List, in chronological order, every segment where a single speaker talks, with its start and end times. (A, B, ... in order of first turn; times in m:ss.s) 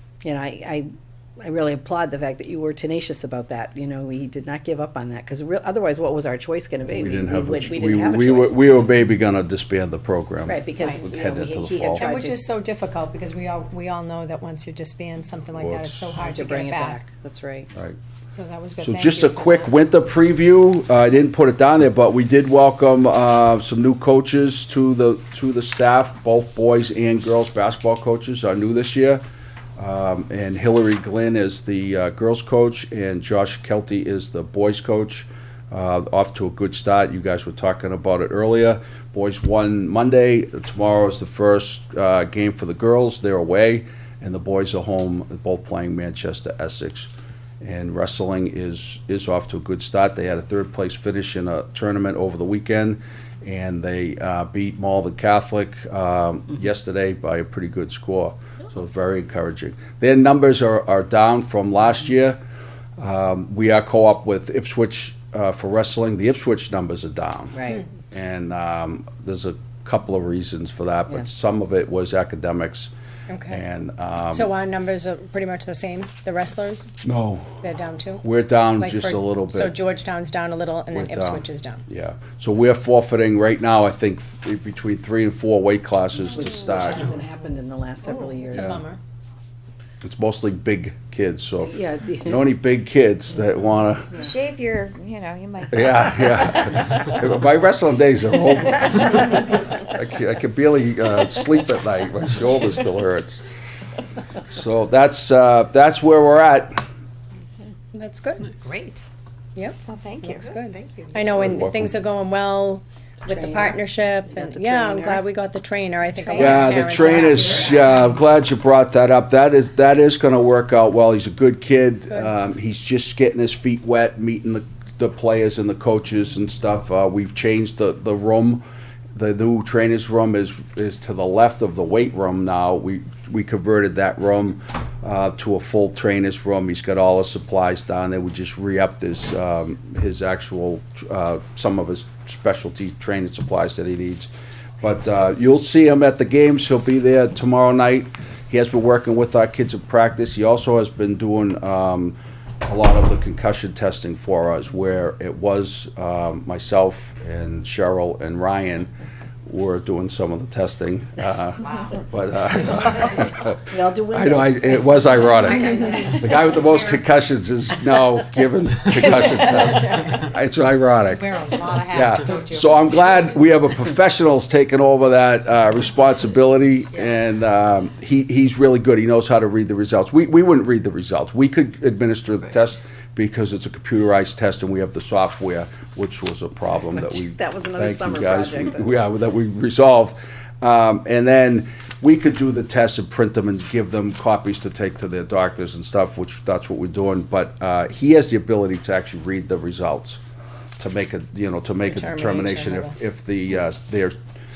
0:00.2-0:08.6 A
0:06.9-0:12.1 B
0:10.5-0:12.4 A
0:12.0-0:17.0 C
0:15.6-0:16.1 B
0:16.2-0:17.7 A
0:18.3-0:19.7 C
0:18.8-0:29.2 B
0:29.8-0:47.1 B
0:47.6-1:02.4 B
1:03.0-1:12.9 B
1:07.5-1:07.8 A
1:13.3-1:13.6 C
1:13.5-1:14.5 B
1:14.3-1:16.9 C
1:17.0-1:17.6 B
1:17.6-1:18.2 C
1:18.2-1:19.8 B
1:18.8-1:21.8 C
1:20.9-1:27.1 B
1:26.3-1:28.8 A
1:28.4-1:29.0 C
1:28.5-1:28.8 B
1:30.0-1:34.2 B
1:31.6-1:32.4 A
1:34.1-1:36.6 D
1:35.7-1:43.4 B
1:44.4-1:46.8 B
1:47.9-1:48.6 C
1:48.6-1:49.0 A
1:49.6-1:58.0 C
1:49.8-1:50.5 D
1:51.3-1:51.9 B
1:53.2-1:55.2 A
1:56.3-1:56.8 A
1:56.3-2:08.6 B
2:09.2-2:24.3 B
2:24.8-2:38.9 B
2:39.4-2:51.3 B
2:43.7-2:46.1 A
2:45.8-2:46.2 C
2:49.2-2:49.6 C
2:51.1-2:52.9 C
2:51.9-3:20.2 B
3:06.9-3:08.9 A
3:20.8-3:24.2 B
3:21.8-3:23.0 C